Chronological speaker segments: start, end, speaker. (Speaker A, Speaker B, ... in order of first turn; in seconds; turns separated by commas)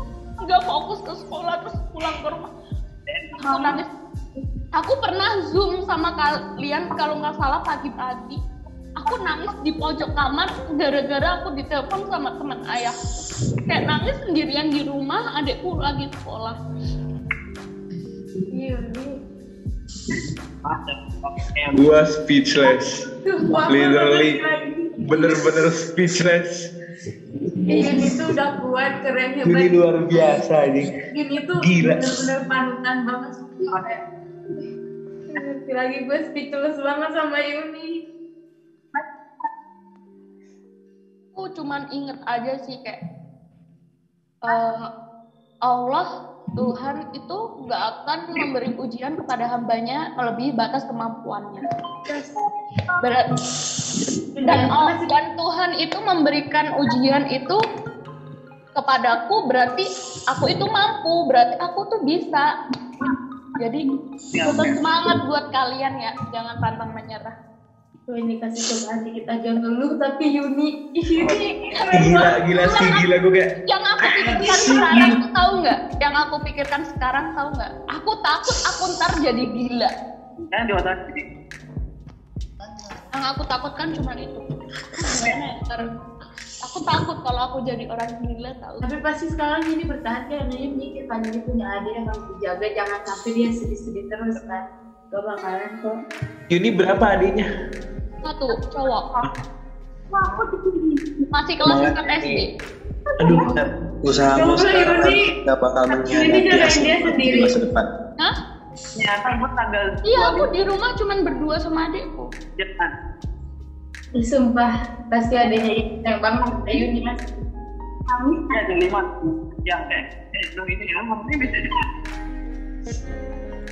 Speaker A: 0.4-2.5, Speaker B: 3.1-3.6, Speaker A: 3.4-3.9, Speaker A: 4.7-8.4, Speaker A: 9.0-13.0, Speaker A: 13.7-16.6, Speaker C: 18.5-19.2, Speaker B: 20.7-21.8, Speaker D: 21.7-23.1, Speaker C: 22.6-25.6, Speaker D: 23.6-24.4, Speaker D: 25.0-26.7, Speaker C: 27.7-30.4, Speaker D: 27.8-28.2, Speaker D: 29.4-30.9, Speaker C: 31.1-34.0, Speaker D: 31.6-32.2, Speaker C: 35.3-38.0, Speaker A: 41.4-43.0, Speaker A: 44.4-44.9, Speaker A: 45.7-51.6, Speaker A: 53.0-53.3, Speaker C: 54.4-55.1, Speaker A: 54.5-57.6, Speaker A: 58.8-62.5, Speaker A: 63.6-67.3, Speaker C: 68.1-72.9, Speaker D: 71.9-73.5, Speaker A: 73.7-79.9, Speaker D: 74.3-75.1, Speaker B: 80.5-81.2, Speaker A: 83.1-84.5, Speaker A: 85.0-85.9, Speaker A: 86.6-88.8, Speaker C: 88.8-96.0, Speaker D: 96.5-97.5, Speaker A: 98.2-99.3, Speaker C: 100.3-100.8, Speaker A: 101.3-102.5, Speaker E: 101.6-102.5, Speaker E: 103.2-107.9, Speaker C: 104.3-105.3, Speaker C: 105.9-107.5, Speaker B: 109.0-110.4, Speaker A: 110.0-112.3, Speaker B: 112.6-112.9, Speaker C: 114.2-117.2, Speaker B: 118.5-119.1, Speaker B: 119.7-121.8